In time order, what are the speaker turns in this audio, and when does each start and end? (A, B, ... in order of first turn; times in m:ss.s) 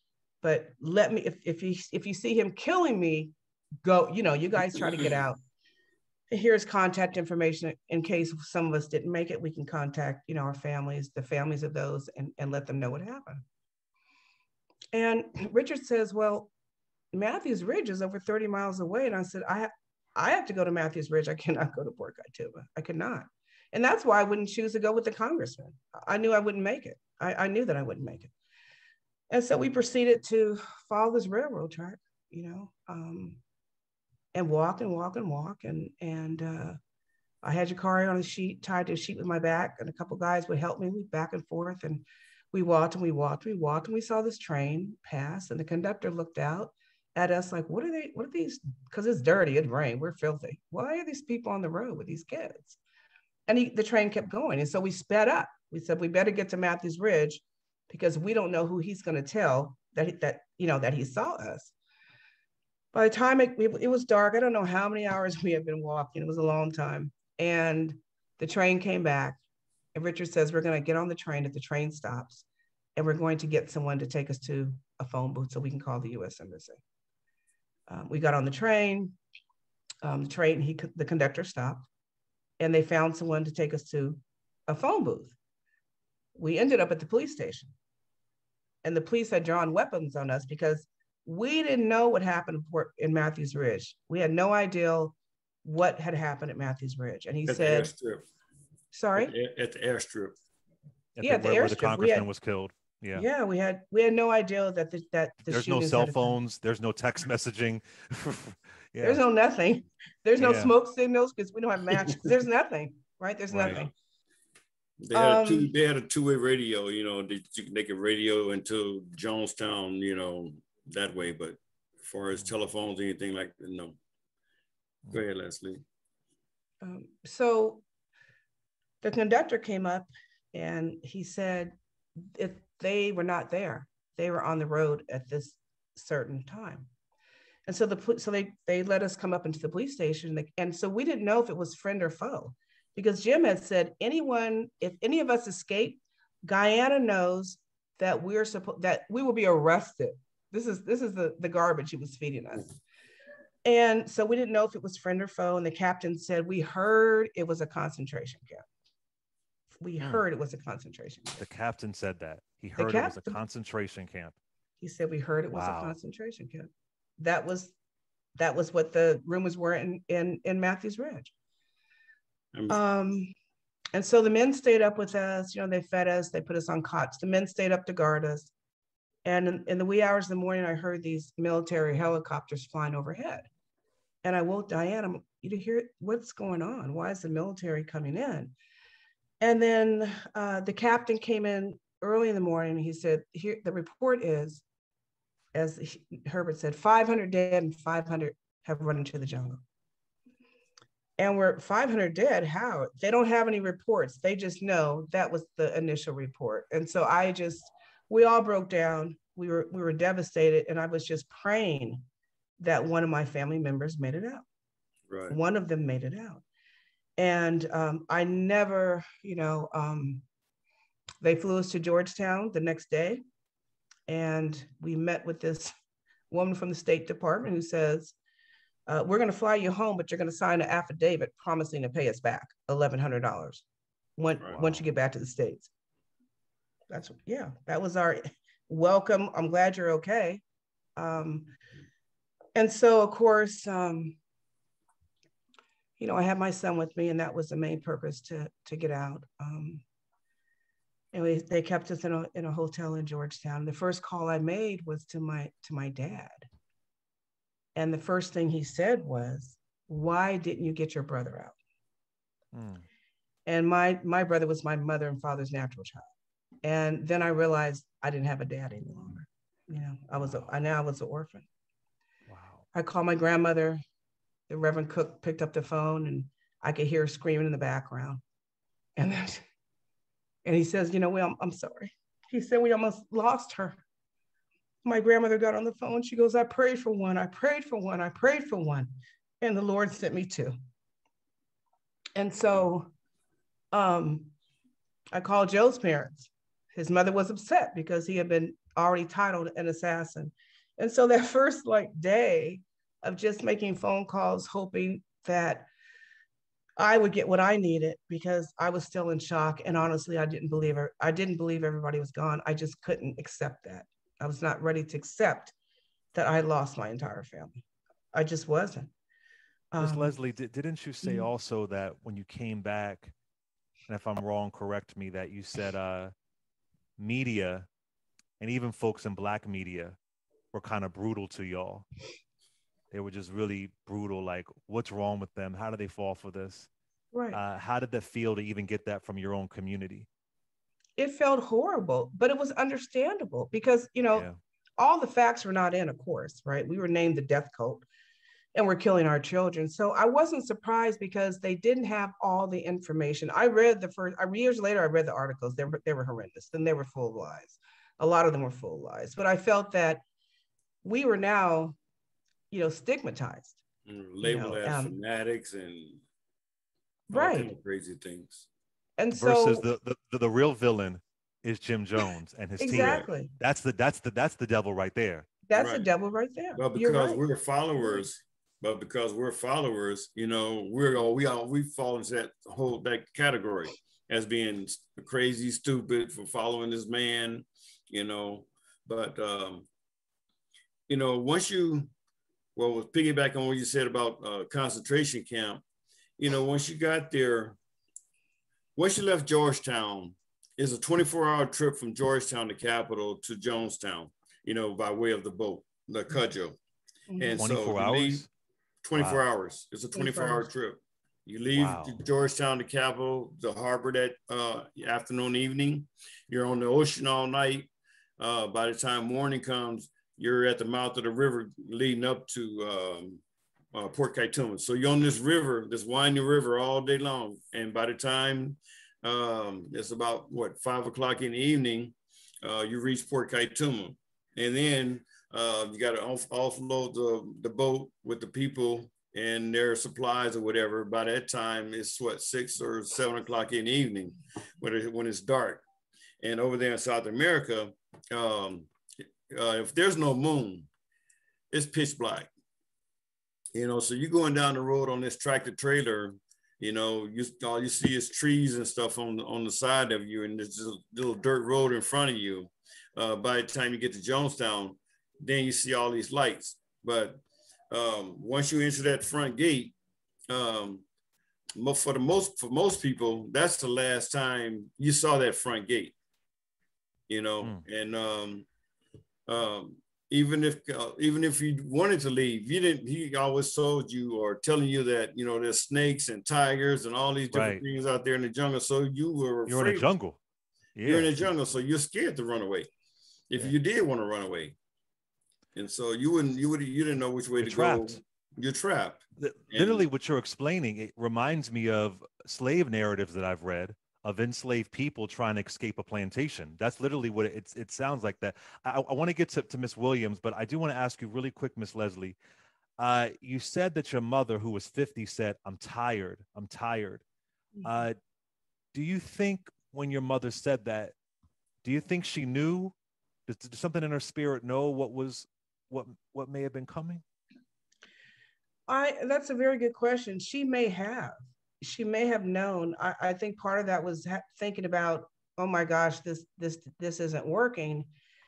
0:00.4-0:03.3 A
0:03.8-0:05.4 A
0:06.3-0:13.4 A
0:14.9-0:16.5 A
0:17.1-0:28.3 A
0:29.3-0:33.4 A
0:34.4-0:36.8 A
0:37.4-0:52.8 A
0:53.5-1:01.7 A
1:02.9-1:09.4 A
1:10.0-1:12.4 A
1:13.0-1:16.8 A
1:17.9-1:19.2 A
1:20.0-1:21.8 A
1:22.6-1:25.3 A
1:26.4-1:27.7 A
1:28.8-1:37.9 A
1:37.5-1:38.2 B
1:38.9-1:39.3 A
1:39.2-1:40.4 B
1:41.2-1:43.3 C
1:41.2-1:42.3 A
1:43.1-1:46.4 A
1:45.5-1:49.2 C
1:49.0-1:53.9 A
1:50.4-1:50.7 C
1:53.5-1:53.8 C
1:55.0-2:04.0 B
1:55.1-1:55.7 A
2:05.1-2:05.8 B
2:06.8-2:07.8 A
2:09.0-2:16.9 A
2:17.7-2:32.8 A
2:33.6-2:38.6 A
2:39.8-2:41.4 A
2:41.4-2:44.4 C
2:42.8-2:43.4 A
2:44.8-2:47.7 A
2:45.5-2:46.0 C
2:48.4-2:51.3 A
2:52.5-2:52.8 B
2:52.7-2:53.3 A
2:53.9-2:58.5 A
2:59.2-3:03.5 A
3:04.2-3:08.5 A
3:09.4-3:14.6 A
3:15.6-3:19.6 A
3:21.2-3:32.0 A
3:32.6-3:34.4 A
3:35.1-3:35.4 B
3:35.3-3:36.4 A
3:37.2-3:40.2 A
3:41.2-3:43.2 A
3:44.1-3:45.7 A
3:46.3-3:48.1 A
3:48.9-3:53.6 A
3:54.2-3:55.7 A
3:54.4-3:54.8 B
3:56.9-4:00.4 A
4:01.0-4:01.5 A
4:02.6-4:04.2 A
4:06.0-4:09.8 A
4:11.1-4:16.5 A
4:17.8-4:21.6 A
4:22.5-4:22.8 C
4:23.5-4:26.0 A
4:26.6-4:31.4 A
4:30.2-4:30.5 C
4:32.3-4:32.6 C
4:32.7-4:33.8 A
4:34.5-4:38.2 A
4:39.0-4:39.4 A
4:40.5-4:43.8 A
4:44.8-4:50.6 A
4:52.2-4:52.9 A
4:53.7-4:54.3 A
4:55.1-5:05.7 A
5:06.8-5:15.5 A
5:16.1-5:17.6 A
5:18.1-5:18.9 A
5:19.7-5:20.1 A
5:19.8-5:23.1 C
5:23.9-5:26.1 C
5:27.0-5:27.7 C
5:28.4-5:30.0 C
5:30.5-5:31.9 C
5:32.9-5:36.7 C
5:37.1-5:37.4 A
5:37.3-5:40.1 C
5:41.0-5:44.3 A
5:44.1-5:44.4 C
5:44.8-5:47.8 A
5:48.6-6:00.0 A
6:00.8-6:01.8 A
6:02.5-6:03.6 A
6:03.9-6:06.0 B
6:04.2-6:05.0 A
6:07.1-6:07.5 A
6:07.1-6:08.4 B
6:09.0-6:09.6 A
6:09.1-6:15.3 C
6:12.6-6:13.3 A
6:12.6-6:13.1 B
6:15.5-6:17.2 A
6:15.6-6:15.9 B
6:16.6-6:29.7 B
6:30.9-6:31.9 B
6:32.6-6:35.6 B
6:36.2-6:37.6 B
6:38.8-6:46.6 B
6:47.1-6:47.5 A
6:47.2-6:48.2 B
6:47.4-6:48.3 C
6:48.8-7:03.2 B
6:48.9-6:49.2 C
6:49.9-6:50.5 A
6:51.5-6:52.0 C
7:03.7-7:25.6 B
7:26.2-7:28.7 B
7:29.3-7:30.7 B
7:31.5-7:32.3 B
7:33.5-7:49.8 B
7:50.3-7:50.8 B
7:51.6-7:56.0 B
7:57.1-7:58.5 B
7:59.3-8:09.9 B
8:07.3-8:07.6 C
8:09.5-8:10.2 C
8:10.8-8:11.3 C
8:10.8-8:12.7 B
8:13.3-8:14.6 B
8:15.6-8:19.9 B
8:17.4-8:18.0 C
8:19.2-8:32.2 C
8:32.8-8:37.0 C
8:37.6-8:38.0 C
8:38.7-8:41.0 C
8:41.6-8:42.7 C
8:43.3-8:47.0 C
8:48.7-8:57.9 A